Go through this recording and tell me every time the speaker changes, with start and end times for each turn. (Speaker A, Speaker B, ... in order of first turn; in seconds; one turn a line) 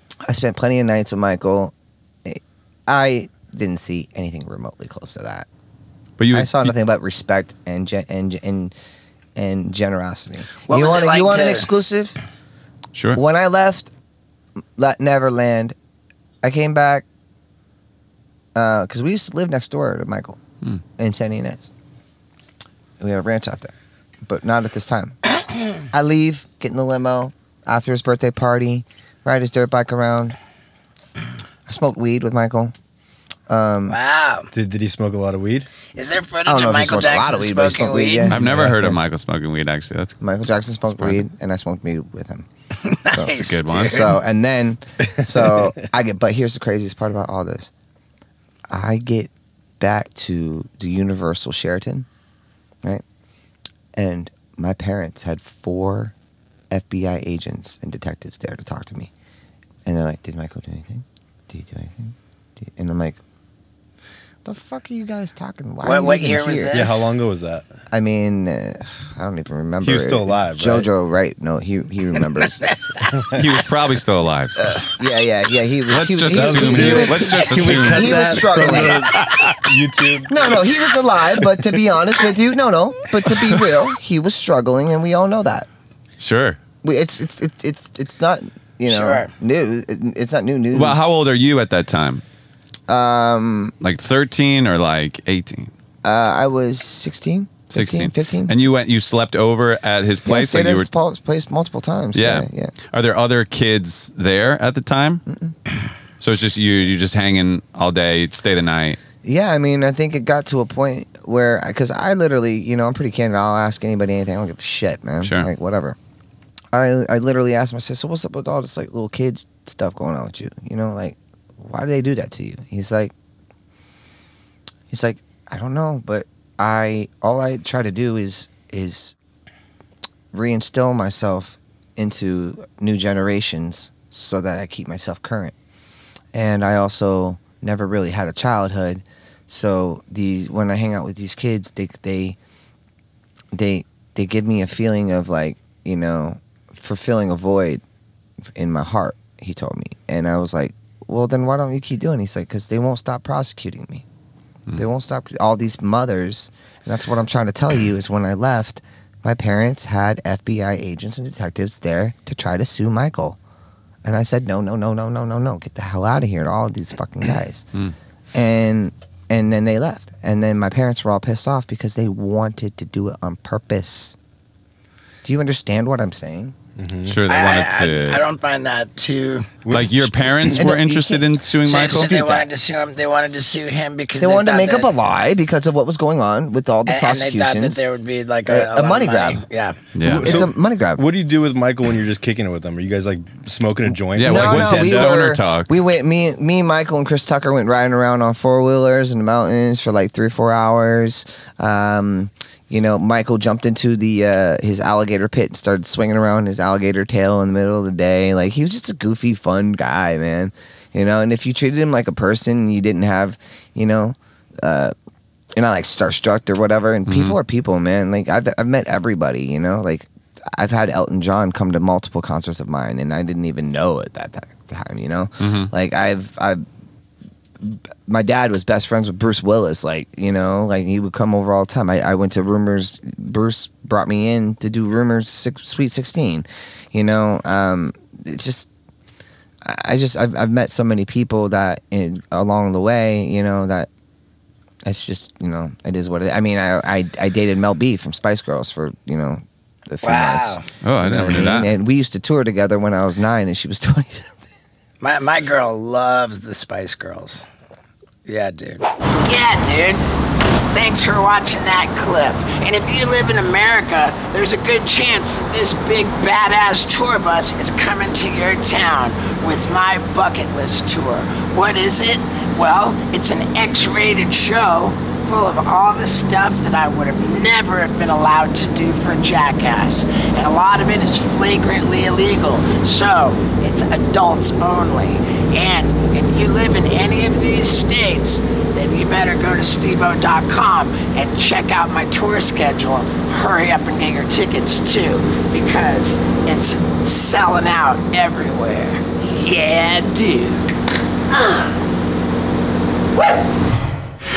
Speaker A: 0.3-1.7
Speaker A: 2.3-5.5
Speaker B: 6.2-6.7
Speaker A: 6.3-8.7
Speaker A: 9.4-12.2
Speaker C: 10.7-11.7
Speaker B: 12.9-13.2
Speaker A: 13.1-13.9
Speaker A: 14.8-15.8
Speaker A: 16.4-17.1
Speaker A: 18.6-20.4
Speaker A: 21.0-21.7
Speaker A: 23.0-25.2
Speaker A: 25.9-30.4
Speaker A: 31.7-32.7
Speaker A: 33.5-34.0
Speaker C: 33.9-34.5
Speaker D: 34.5-35.7
Speaker C: 36.0-38.4
Speaker A: 36.5-39.0
Speaker B: 38.3-40.2
Speaker D: 38.3-38.8
Speaker A: 40.2-42.5
Speaker B: 40.8-41.2
Speaker C: 42.8-44.1
Speaker A: 43.1-47.7
Speaker B: 43.3-44.1
Speaker A: 48.7-52.1
Speaker A: 54.0-56.1
Speaker A: 56.7-59.1
Speaker A: 59.9-63.2
Speaker A: 64.5-66.8
Speaker C: 65.8-67.1
Speaker D: 66.7-67.7
Speaker A: 67.9-72.7
Speaker D: 69.8-70.9
Speaker D: 73.1-73.4
Speaker B: 73.3-74.6
Speaker A: 74.6-79.0
Speaker B: 75.9-79.6
Speaker D: 76.3-81.8
Speaker A: 80.3-85.7
Speaker B: 83.3-83.7
Speaker B: 86.2-86.6
Speaker A: 86.8-91.1
Speaker C: 88.9-89.3
Speaker B: 90.7-92.2
Speaker A: 92.9-93.7
Speaker B: 93.8-95.7
Speaker A: 96.0-98.6
Speaker B: 97.7-100.9
Speaker A: 100.3-102.7
Speaker B: 102.1-105.2
Speaker A: 105.3-105.5
Speaker B: 106.2-109.0
Speaker A: 109.2-116.0
Speaker B: 115.2-115.5
Speaker A: 116.7-123.1
Speaker A: 124.9-129.2
Speaker A: 130.3-135.5
Speaker A: 136.3-142.4
Speaker A: 143.5-147.8
Speaker A: 148.5-154.1
Speaker A: 154.8-163.4
Speaker A: 164.0-167.7
Speaker A: 168.3-174.2
Speaker A: 175.2-176.6
Speaker D: 176.8-177.2
Speaker B: 177.1-178.2
Speaker C: 177.3-179.5
Speaker D: 179.7-180.7
Speaker B: 179.7-182.5
Speaker A: 180.5-181.3
Speaker C: 181.6-184.9
Speaker A: 184.2-187.8
Speaker C: 186.9-189.8
Speaker A: 188.5-189.4
Speaker B: 189.9-190.4
Speaker A: 190.0-191.1
Speaker D: 190.1-195.1
Speaker B: 194.2-195.7
Speaker A: 194.2-214.9
Speaker A: 215.6-226.6
Speaker B: 217.1-217.4
Speaker B: 225.4-225.7
Speaker A: 227.6-238.7
Speaker A: 239.7-243.9
Speaker A: 244.9-254.4
Speaker C: 250.0-250.7
Speaker B: 250.8-251.7
Speaker C: 255.0-257.5
Speaker C: 258.2-260.0
Speaker C: 260.7-300.7
Speaker C: 301.3-301.7